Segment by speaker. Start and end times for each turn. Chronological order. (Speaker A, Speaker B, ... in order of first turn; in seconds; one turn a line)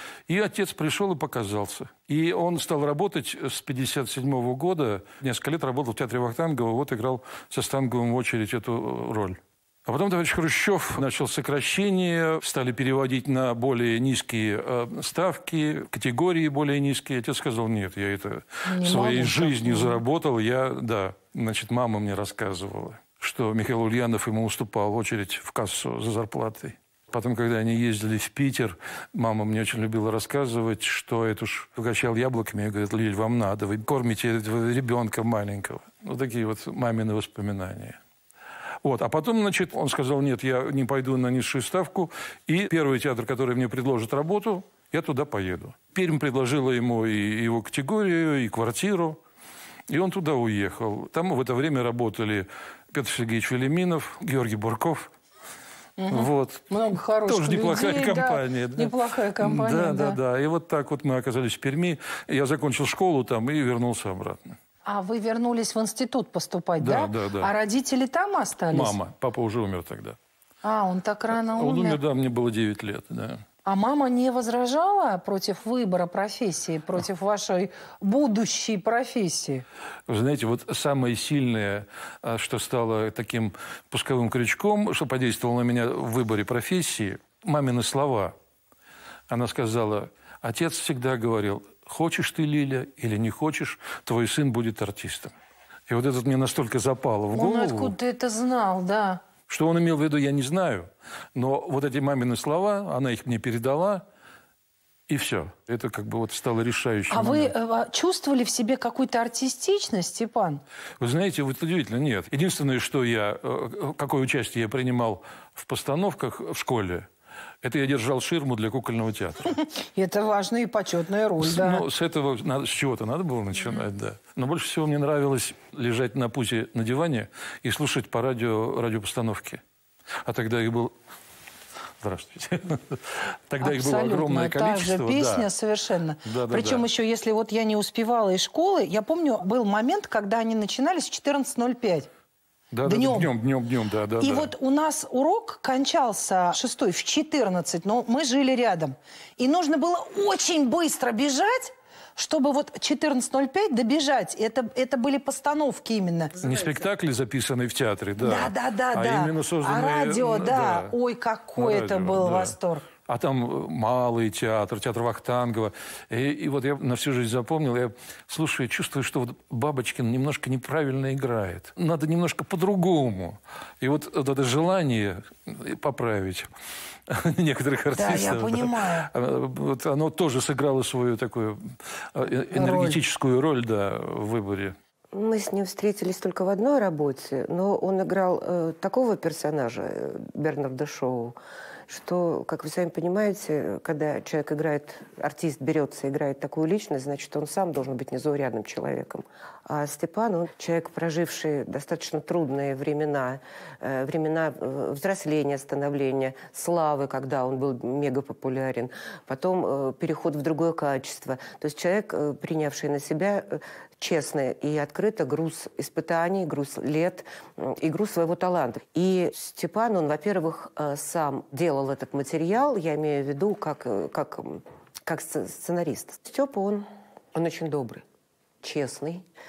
Speaker A: 0.3-38.0
Speaker B: 18.6-20.0
Speaker A: 38.8-49.2
Speaker A: 49.9-55.1
Speaker B: 56.0-60.2
Speaker A: 56.1-64.5
Speaker B: 64.8-69.0
Speaker A: 66.8-67.5
Speaker A: 68.7-70.2
Speaker B: 70.6-72.0
Speaker A: 71.3-73.4
Speaker B: 73.6-79.6
Speaker A: 80.1-88.3
Speaker A: 89.3-95.3
Speaker A: 95.9-97.9
Speaker B: 97.3-99.2
Speaker A: 99.5-104.0
Speaker A: 105.1-107.5
Speaker B: 107.1-110.6
Speaker A: 111.0-117.1
Speaker A: 117.6-119.6
Speaker B: 119.8-121.8
Speaker A: 121.4-129.6
Speaker A: 130.2-130.9
Speaker A: 132.0-135.5
Speaker B: 133.6-142.1
Speaker A: 136.2-136.9
Speaker A: 142.7-144.5
Speaker B: 142.8-143.3
Speaker B: 144.2-156.5
Speaker A: 156.4-160.9
Speaker B: 158.2-162.9
Speaker A: 161.6-162.5
Speaker A: 163.1-176.5
Speaker A: 177.1-184.8
Speaker B: 177.9-179.1
Speaker B: 182.5-183.0
Speaker C: 185.1-191.4
Speaker C: 191.9-228.0
Speaker C: 228.6-229.2